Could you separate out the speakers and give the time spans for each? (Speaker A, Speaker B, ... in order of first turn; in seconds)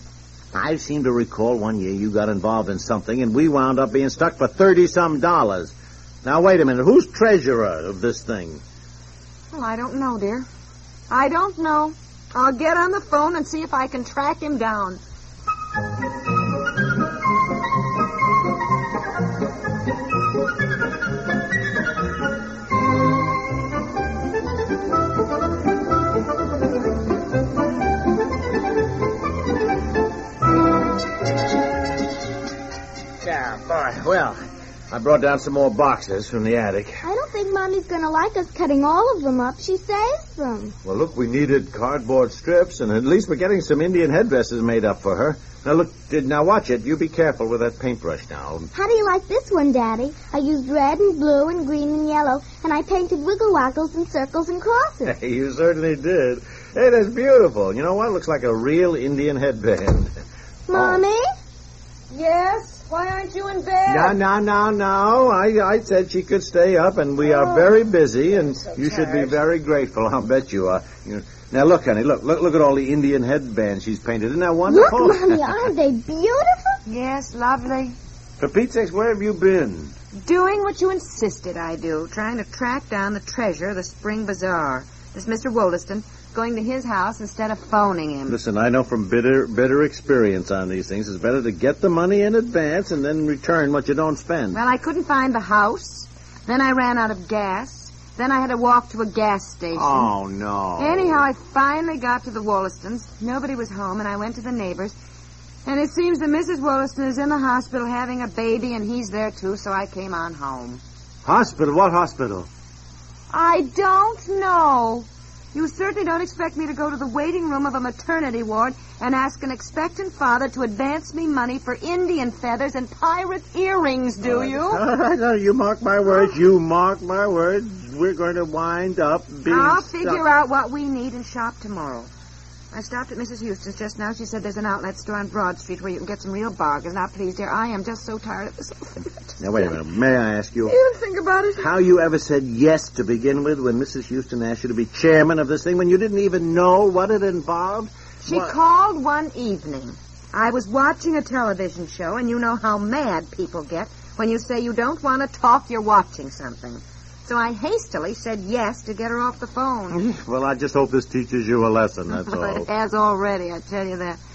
Speaker A: 0.5-8.6, 33.2-34.4, 34.9-37.0, 40.9-48.7, 55.0-60.1, 60.7-61.0, 63.9-75.7, 78.4-79.9, 88.3-94.6, 99.7-101.3, 111.2-112.5, 124.2-130.2, 139.4-140.8, 141.6-148.6, 159.9-162.7
Speaker B: 9.5-10.5, 11.1-15.0, 62.1-64.2, 68.6-69.4, 76.9-78.0, 80.2-88.4, 94.5-100.1, 100.8-105.0, 105.7-110.8, 113.3-124.8, 126.0-126.4, 129.4-132.1, 132.7-139.8, 140.7-141.7, 148.2-160.0, 162.1-164.2
Speaker C: 37.0-40.8, 48.7-55.2, 60.7-61.2, 74.7-76.8